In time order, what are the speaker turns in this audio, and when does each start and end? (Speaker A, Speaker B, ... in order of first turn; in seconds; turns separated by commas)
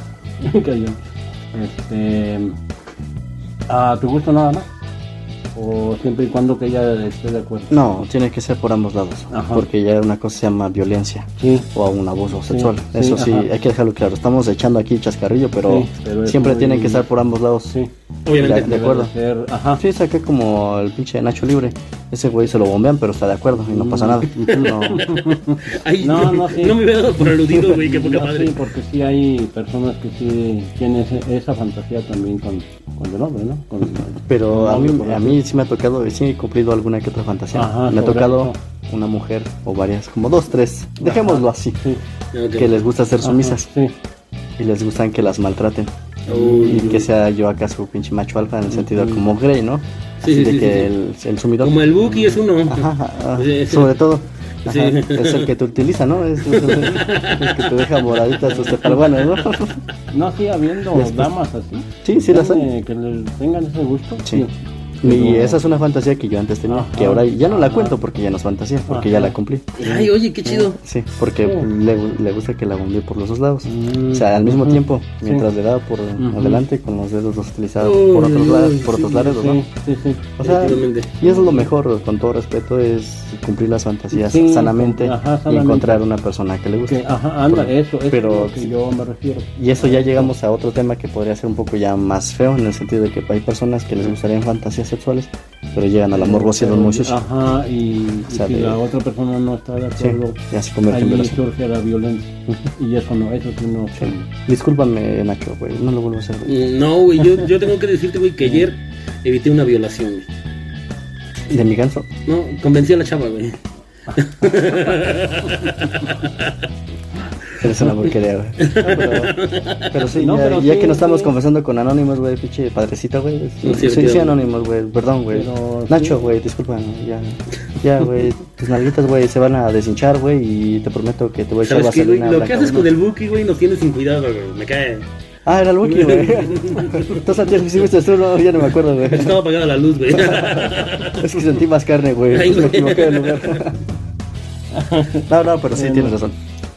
Speaker A: 0.4-1.0, Speaker A: 1.5-2.6, Speaker A: 3.7-4.7, Speaker A: 5.5-7.8, Speaker B: 7.7-17.8, Speaker A: 9.3-9.7, Speaker A: 11.4-11.7, Speaker A: 12.3-13.5, Speaker A: 15.6-17.1, Speaker A: 17.7-19.8, Speaker C: 18.3-18.8, Speaker B: 18.4-19.1, Speaker B: 19.8-25.1, Speaker A: 23.7-26.8, Speaker C: 24.6-25.1, Speaker C: 25.6-28.6, Speaker A: 27.6-35.4, Speaker B: 34.0-41.8, Speaker A: 37.5-38.6, Speaker A: 41.0-42.0, Speaker C: 42.3-42.7, Speaker B: 42.6-43.7, Speaker A: 43.2-44.0, Speaker B: 44.6-45.9, Speaker C: 46.3-47.1, Speaker A: 46.3-47.1, Speaker B: 46.6-51.8, Speaker A: 48.7-49.2, Speaker C: 50.2-50.9, Speaker C: 51.6-54.0, Speaker B: 52.7-59.8, Speaker C: 54.6-55.5, Speaker C: 56.5-57.7, Speaker A: 58.5-59.0, Speaker A: 60.1-65.6, Speaker B: 60.9-61.3, Speaker B: 62.0-62.7, Speaker B: 65.0-69.8, Speaker A: 66.7-68.0, Speaker A: 68.9-70.7, Speaker C: 69.8-70.8, Speaker B: 70.8-79.6, Speaker A: 73.7-75.5, Speaker A: 76.2-76.6, Speaker C: 77.8-79.0, Speaker A: 78.9-80.3, Speaker B: 80.4-88.7, Speaker C: 80.4-81.1, Speaker A: 81.2-81.7, Speaker A: 84.1-86.0, Speaker A: 86.9-90.3, Speaker B: 89.6-97.2, Speaker A: 96.1-104.3, Speaker B: 98.3-98.8, Speaker B: 100.0-101.4, Speaker B: 104.0-106.6, Speaker C: 106.5-110.3, Speaker A: 108.4-108.7, Speaker B: 111.5-112.1, Speaker C: 112.3-113.6, Speaker C: 114.1-116.5, Speaker B: 117.6-119.4, Speaker C: 118.6-120.0, Speaker B: 119.9-132.9, Speaker A: 120.2-121.3, Speaker C: 123.6-124.4, Speaker A: 125.3-126.2, Speaker C: 131.6-135.1, Speaker B: 135.5-139.4, Speaker C: 135.8-137.3, Speaker C: 139.0-141.3, Speaker B: 140.2-143.8, Speaker C: 142.3-143.7, Speaker A: 144.7-146.2, Speaker B: 145.3-146.3